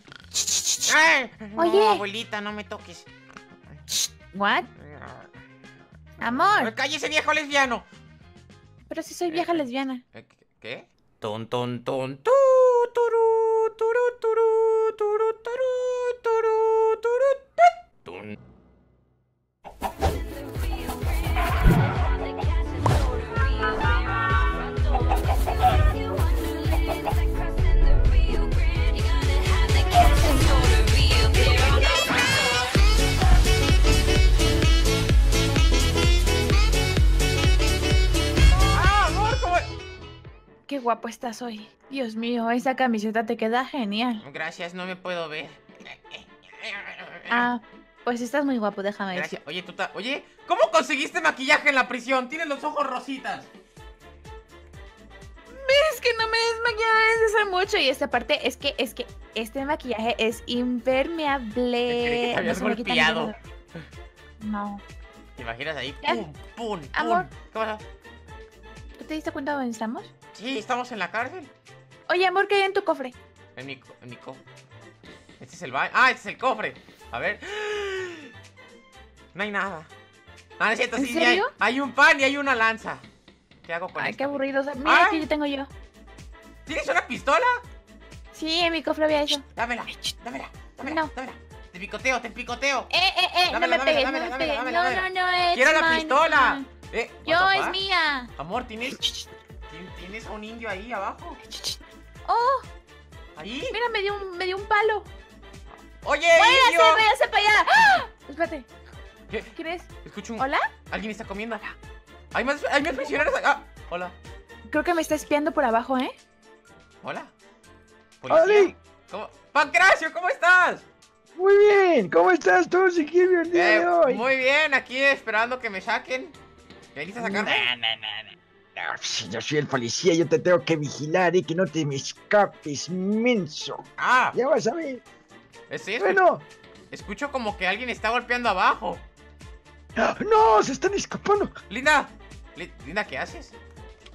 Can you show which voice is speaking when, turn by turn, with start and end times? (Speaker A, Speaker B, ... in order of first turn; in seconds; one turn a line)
Speaker A: 0.5-0.9
Speaker B: 0.8-3.1
Speaker A: 1.6-2.0
Speaker A: 3.9-4.7
Speaker B: 4.8-5.3
Speaker A: 6.2-6.7
Speaker B: 6.6-7.8
Speaker A: 8.9-10.0
Speaker B: 9.3-18.3
Speaker A: 23.3-23.8
Speaker A: 26.3-27.2
Speaker A: 28.3-32.0
Speaker B: 38.7-39.7
Speaker A: 40.7-44.2
Speaker B: 44.2-47.5
Speaker A: 47.3-49.4
Speaker B: 49.1-53.5
Speaker A: 55.5-63.4
Speaker B: 61.9-63.3
Speaker A: 64.4-64.8
Speaker B: 65.4-67.8
Speaker A: 66.9-67.3
Speaker A: 69.0-70.1
Speaker B: 70.3-71.5
Speaker A: 72.1-73.2
Speaker B: 73.5-74.4
Speaker B: 75.4-78.3
Speaker B: 79.3-79.9
Speaker B: 80.6-83.0
Speaker A: 81.0-81.5
Speaker B: 83.6-85.2
Speaker A: 84.0-85.7
Speaker B: 86.7-87.6
Speaker A: 88.3-89.4
Speaker B: 89.5-92.9
Speaker A: 90.8-91.1
Speaker A: 92.9-96.7
Speaker B: 93.5-97.8
Speaker A: 97.2-98.3
Speaker B: 98.4-99.0
Speaker B: 99.7-101.4
Speaker A: 101.4-102.7
Speaker B: 103.3-103.8
Speaker A: 103.7-105.1
Speaker B: 106.0-107.0
Speaker A: 106.3-108.7
Speaker B: 109.3-111.7
Speaker A: 109.5-110.7
Speaker B: 112.3-114.1
Speaker A: 114.7-116.1
Speaker B: 117.0-117.3
Speaker B: 118.2-120.8
Speaker C: 118.3-118.7
Speaker C: 121.3-124.2
Speaker B: 123.5-126.3
Speaker B: 126.9-127.7
Speaker C: 127.2-135.0
Speaker B: 134.0-134.3
Speaker B: 135.7-136.2
Speaker C: 136.0-136.4
Speaker B: 136.9-139.0
Speaker C: 140.0-141.5
Speaker B: 141.7-143.5